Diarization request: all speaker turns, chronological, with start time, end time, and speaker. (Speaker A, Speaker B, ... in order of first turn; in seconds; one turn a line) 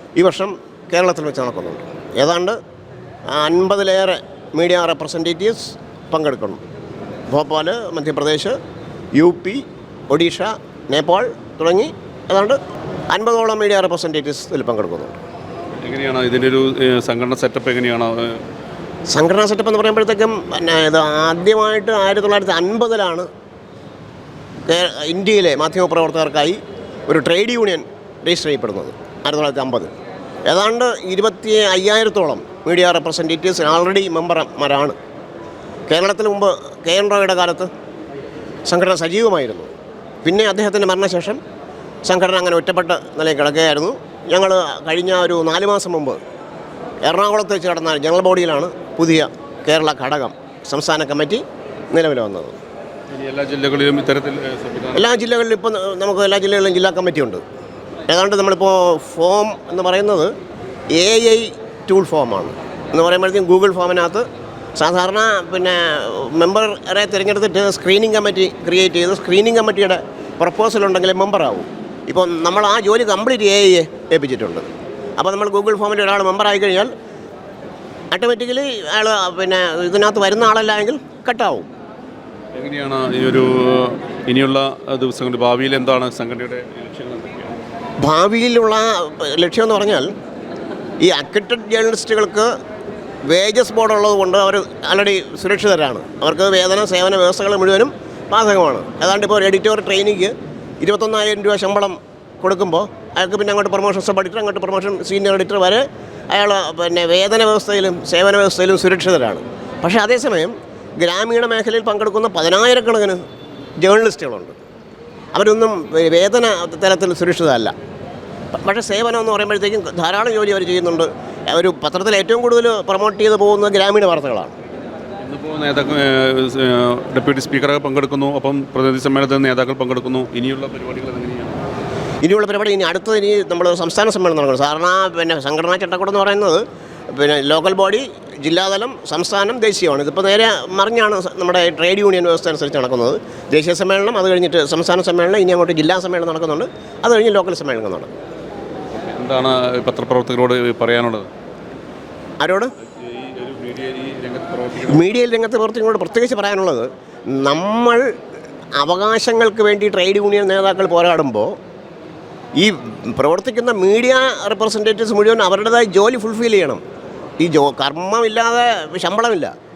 Speaker A: 0.1-2.6
Speaker A: 3.3-6.6
Speaker A: 7.3-8.6
Speaker A: 9.1-15.2
Speaker B: 15.8-18.4
Speaker A: 19.1-23.3
Speaker A: 24.7-29.9
Speaker A: 30.5-35.0
Speaker A: 35.9-37.7
Speaker A: 38.7-39.7
Speaker A: 40.2-41.4
Speaker A: 42.0-46.2
Speaker A: 47.0-51.4
Speaker A: 51.9-52.5
Speaker B: 53.1-55.1
Speaker A: 54.9-57.4
Speaker A: 58.1-60.3
Speaker A: 60.9-64.2
Speaker A: 64.8-74.7
Speaker A: 75.2-76.9
Speaker A: 78.1-81.7
Speaker B: 82.5-87.6
Speaker A: 88.0-90.1
Speaker A: 91.0-92.5
Speaker A: 93.2-113.2
Speaker A: 113.8-114.6
Speaker A: 115.3-117.7
Speaker A: 118.5-124.5
Speaker B: 125.2-131.6
Speaker A: 132.2-148.1
Speaker B: 149.1-151.3
Speaker A: 152.4-152.7
Speaker B: 152.9-155.1
Speaker A: 154.9-158.1
Speaker A: 158.8-161.6
Speaker A: 162.6-166.8
Speaker A: 167.4-169.5